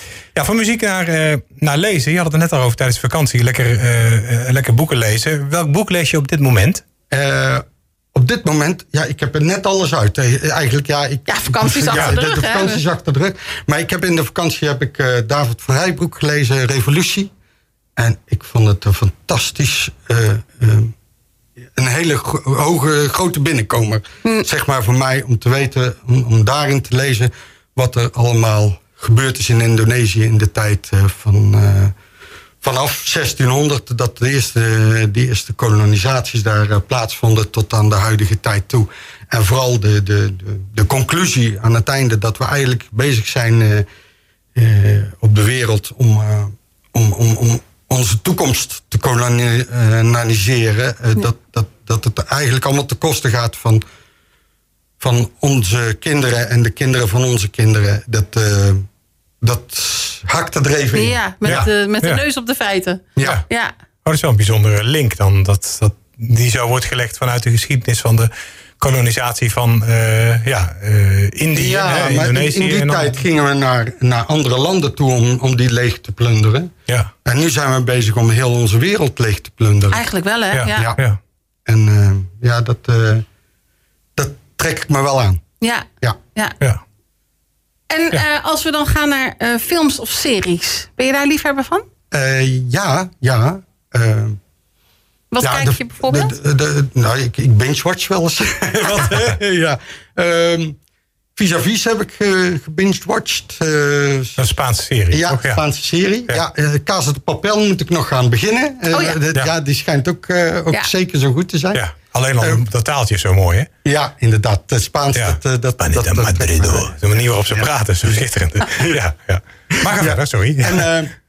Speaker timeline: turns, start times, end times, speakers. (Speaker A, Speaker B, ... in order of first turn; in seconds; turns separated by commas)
Speaker A: 0.3-6.8, Speaker B: 7.1-17.3, Speaker C: 11.3-12.8, Speaker B: 17.9-20.9, Speaker B: 21.8-31.9, Speaker B: 32.6-43.9, Speaker B: 44.5-53.8, Speaker B: 55.0-58.8, Speaker B: 59.4-61.7, Speaker C: 60.9-63.7, Speaker A: 61.4-62.2, Speaker B: 63.2-63.4, Speaker A: 64.0-73.2, Speaker B: 71.5-76.7, Speaker B: 77.2-80.0, Speaker C: 79.9-80.9, Speaker A: 80.5-81.2, Speaker B: 80.7-81.0, Speaker B: 81.7-83.2, Speaker B: 84.2-85.4, Speaker C: 85.6-86.6, Speaker C: 87.9-91.8, Speaker B: 92.1-94.4, Speaker C: 95.3-96.3, Speaker B: 95.4-100.8, Speaker B: 101.3-104.5, Speaker A: 104.4-105.6, Speaker B: 105.1-111.8, Speaker C: 108.9-109.2, Speaker A: 111.7-113.7, Speaker B: 113.8-119.0, Speaker A: 115.1-120.9, Speaker B: 119.8-121.1